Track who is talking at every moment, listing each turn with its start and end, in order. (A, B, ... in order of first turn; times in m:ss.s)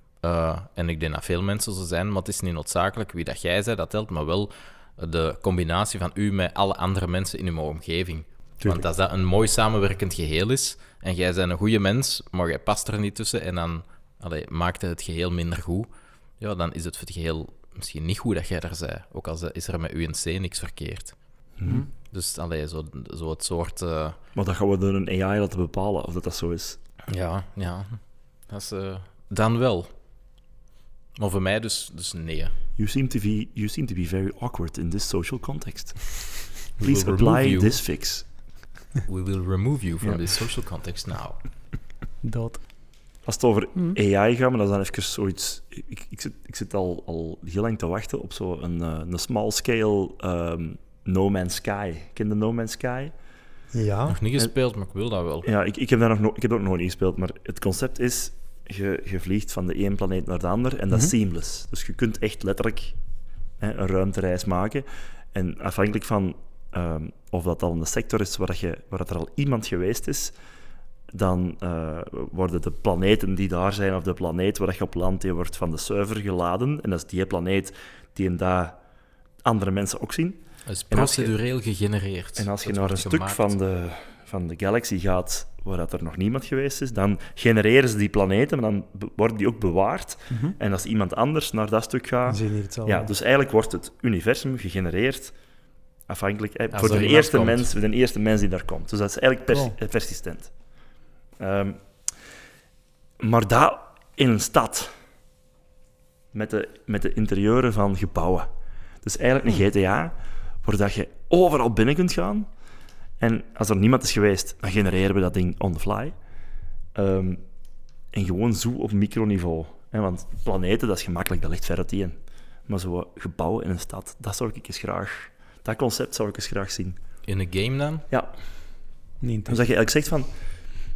0:00.2-0:15.9 A
0:16.4-0:21.2 A
0:21.6-0:21.8 B
0:22.0-0:24.2 A
0:24.4-0:26.8 B
0:27.1-0:29.9 A
0:31.2-0:32.5 A
0:32.8-0:38.2 B
0:36.8-0:37.8 A
0:39.1-0:41.4 A
0:42.2-0:42.6 C
0:43.2-0:53.1 B
0:53.7-0:54.2 C
0:54.1-0:55.5 A
0:55.4-1:03.0 B
1:03.6-1:10.4 B
1:11.1-1:18.8 B
1:19.4-1:21.3 B
1:20.7-1:23.5 A
1:22.4-1:35.4 B
1:30.3-1:30.6 C
1:32.3-1:33.1 C
1:36.1-1:40.5 B
1:36.7-1:37.7 A
1:41.4-1:41.8 B
1:43.2-1:44.9 B
1:46.3-1:48.5 B
1:49.0-1:52.5 B
1:53.2-1:56.2 B
1:57.0-1:57.4 B
1:58.1-2:07.0 B
2:07.3-2:08.0 A
2:09.2-2:09.7 C
2:09.5-2:10.3 B